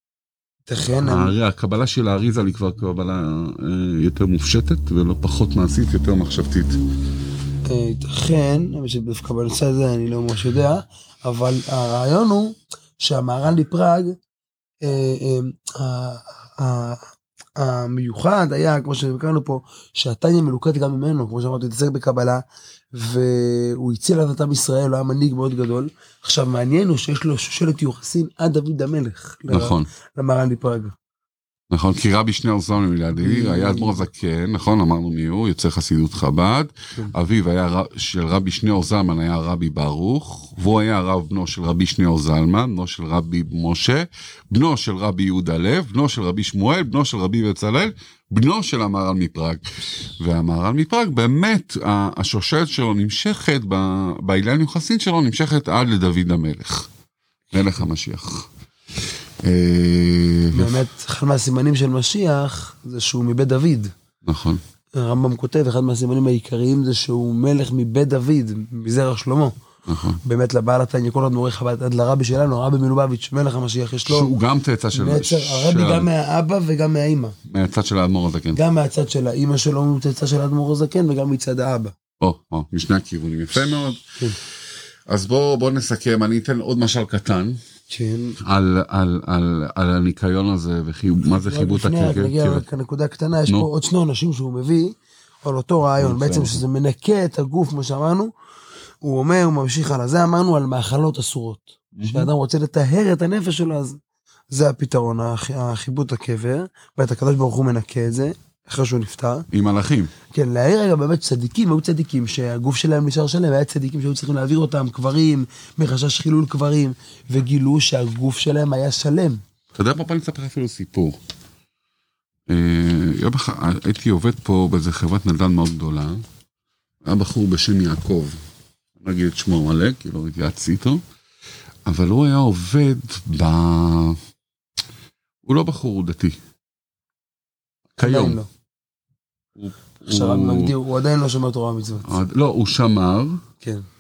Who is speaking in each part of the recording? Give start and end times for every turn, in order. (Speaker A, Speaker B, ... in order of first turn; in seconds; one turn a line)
Speaker A: 0.7-1.3
Speaker B: 1.0-6.8
Speaker A: 7.6-14.2
Speaker A: 14.8-30.9
Speaker B: 29.5-29.9
Speaker B: 31.7-56.9
Speaker A: 33.2-34.0
Speaker B: 57.5-58.5
Speaker B: 59.4-60.8
Speaker A: 60.5-63.9
Speaker B: 64.2-64.6
Speaker A: 64.9-69.5
Speaker B: 69.9-70.2
Speaker A: 70.2-74.3
Speaker B: 74.0-76.1
Speaker A: 74.9-77.3
Speaker B: 77.5-78.6
Speaker A: 78.5-81.9
Speaker B: 82.2-84.2
Speaker B: 85.1-87.6
Speaker A: 87.9-88.3
Speaker B: 88.4-92.6
Speaker A: 91.3-98.3
Speaker B: 96.0-96.6
Speaker A: 99.0-104.0
Speaker B: 101.9-102.3
Speaker A: 104.5-109.5
Speaker B: 109.5-110.1
Speaker A: 110.3-119.4
Speaker B: 119.8-121.2
Speaker B: 122.5-126.2
Speaker B: 127.0-128.4
Speaker B: 129.0-131.0
Speaker B: 131.8-134.2
Speaker B: 135.4-136.4
Speaker B: 138.0-138.4
Speaker A: 138.0-138.5
Speaker B: 139.6-140.7
Speaker A: 140.0-142.2
Speaker B: 142.0-143.4